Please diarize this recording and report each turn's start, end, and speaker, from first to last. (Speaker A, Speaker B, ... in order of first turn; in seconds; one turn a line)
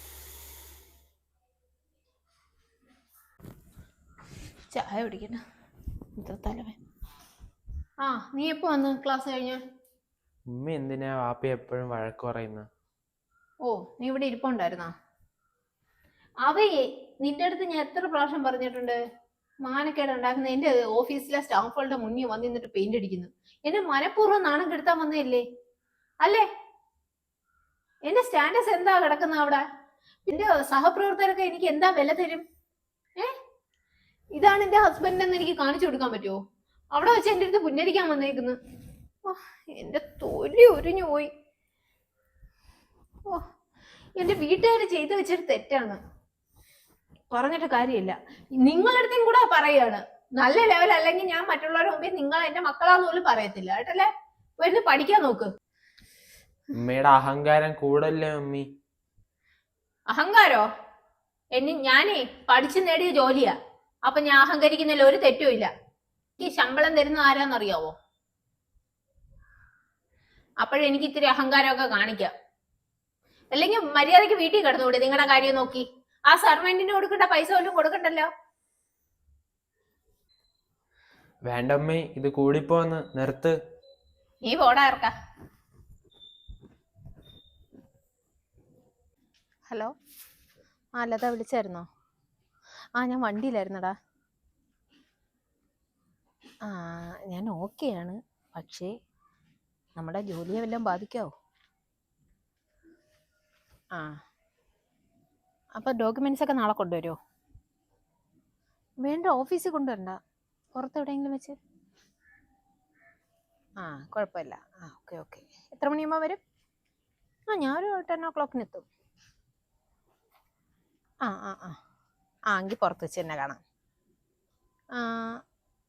Speaker A: 4.7-5.4
Speaker A: 6.2-6.8
Speaker A: 8.0-9.6
Speaker B: 10.5-12.7
Speaker A: 13.6-14.9
Speaker A: 16.4-19.0
Speaker A: 19.6-25.4
Speaker A: 28.1-29.6
Speaker A: 30.2-32.4
Speaker A: 34.4-36.4
Speaker A: 36.9-38.6
Speaker A: 39.2-41.3
Speaker A: 44.2-46.0
Speaker A: 47.3-55.5
Speaker B: 56.8-58.7
Speaker A: 60.1-60.6
Speaker A: 61.5-65.7
Speaker A: 66.4-67.9
Speaker A: 70.6-72.3
Speaker A: 73.5-78.3
Speaker B: 81.5-83.5
Speaker A: 84.4-85.1
Speaker A: 91.0-91.9
Speaker A: 93.0-93.9
Speaker A: 96.7-98.9
Speaker A: 100.0-101.3
Speaker A: 105.8-107.2
Speaker A: 109.0-110.2
Speaker A: 110.8-111.6
Speaker A: 113.8-116.4
Speaker A: 117.5-118.9
Speaker A: 121.2-121.8
Speaker A: 122.5-123.6
Speaker A: 125.0-125.4